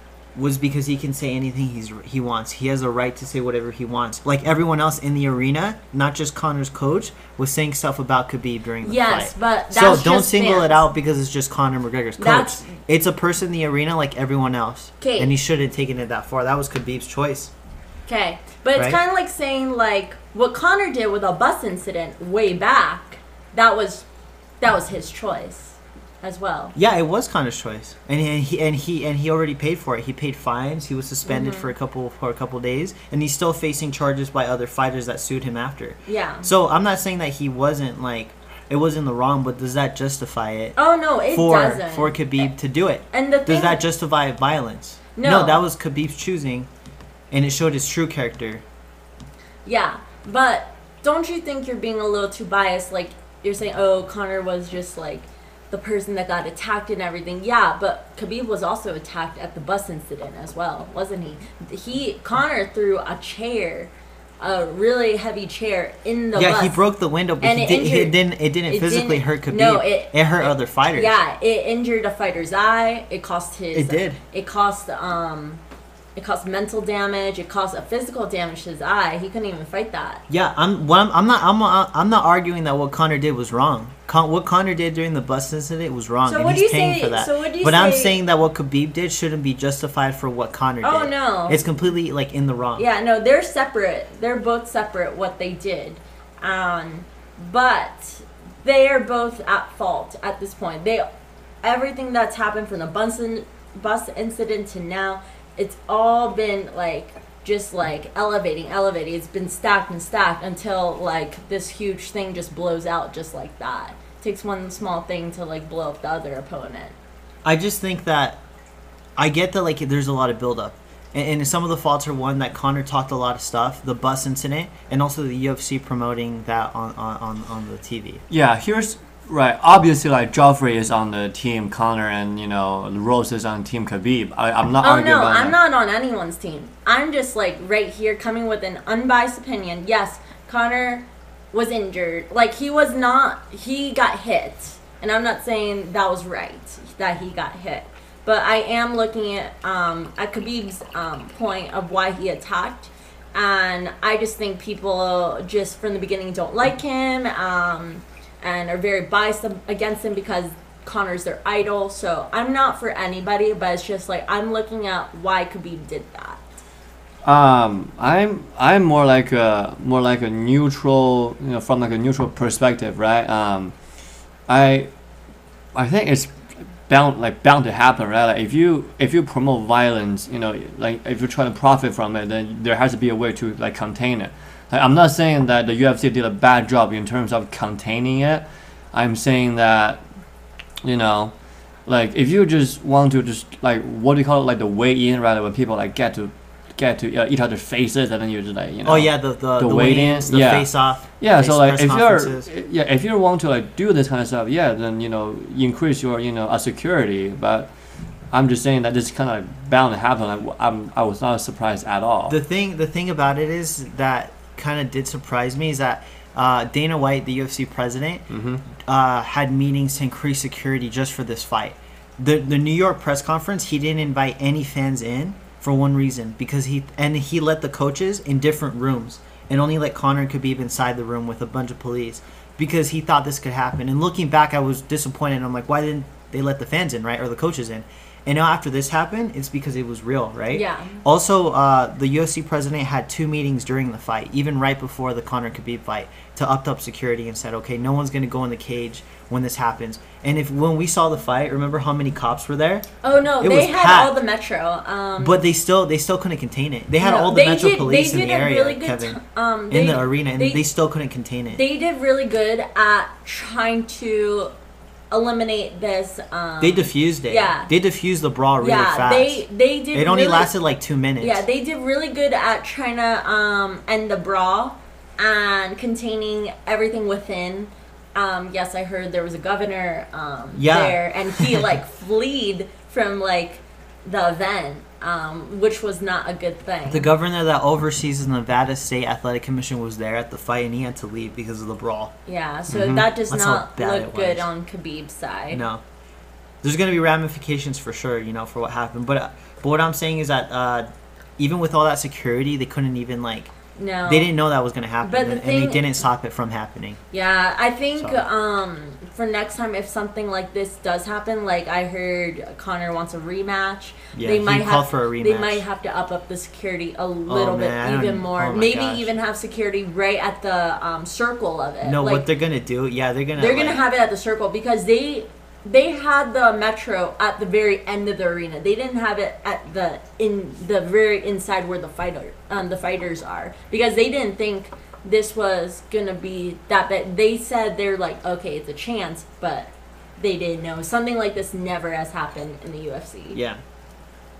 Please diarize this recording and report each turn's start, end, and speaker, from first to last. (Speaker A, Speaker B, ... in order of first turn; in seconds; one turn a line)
Speaker A: 0.3-17.5
Speaker B: 8.8-10.8
Speaker B: 12.2-12.7
Speaker B: 15.0-15.3
Speaker B: 18.1-24.1
Speaker B: 24.6-26.8
Speaker A: 26.8-40.8
Speaker B: 31.2-31.7
Speaker B: 36.1-36.5
Speaker B: 40.8-42.5
Speaker A: 41.3-46.7
Speaker B: 43.1-43.8
Speaker B: 45.1-45.6
Speaker A: 47.3-48.6
Speaker B: 49.6-66.8
Speaker A: 66.3-71.2
Speaker B: 67.4-75.6
Speaker A: 73.7-74.2
Speaker B: 76.2-80.2
Speaker A: 80.3-92.8
Speaker B: 86.2-88.2
Speaker B: 90.8-91.6
Speaker B: 92.8-101.1
Speaker B: 101.6-117.0
Speaker A: 117.5-118.4
Speaker A: 119.2-128.2
Speaker C: 128.3-135.6
Speaker B: 134.8-166.4
Speaker C: 167.2-173.7
Speaker C: 174.5-174.9
Speaker C: 175.7-176.3
Speaker C: 176.9-190.0
Speaker C: 190.8-191.3
Speaker C: 191.9-207.7
Speaker A: 198.8-202.5
Speaker C: 208.3-212.4
Speaker A: 212.3-218.2
Speaker C: 218.3-218.6
Speaker A: 218.8-252.9
Speaker B: 240.5-241.0
Speaker B: 253.0-255.4
Speaker A: 253.4-254.2
Speaker A: 255.2-261.6
Speaker B: 257.0-260.6
Speaker B: 261.5-264.5
Speaker B: 265.1-267.7
Speaker A: 266.6-271.4
Speaker B: 268.6-270.5
Speaker B: 271.2-287.1
Speaker A: 280.6-281.7
Speaker A: 286.9-292.1
Speaker B: 292.3-295.6
Speaker C: 292.7-293.1
Speaker A: 293.3-294.5
Speaker A: 295.5-295.8
Speaker A: 296.6-303.5
Speaker B: 303.8-304.4
Speaker A: 304.1-307.0
Speaker B: 305.0-305.9
Speaker B: 307.1-322.2
Speaker A: 308.0-308.2
Speaker A: 314.1-315.6
Speaker A: 317.3-319.1
Speaker A: 321.8-323.8
Speaker B: 323.4-343.4
Speaker A: 343.3-343.6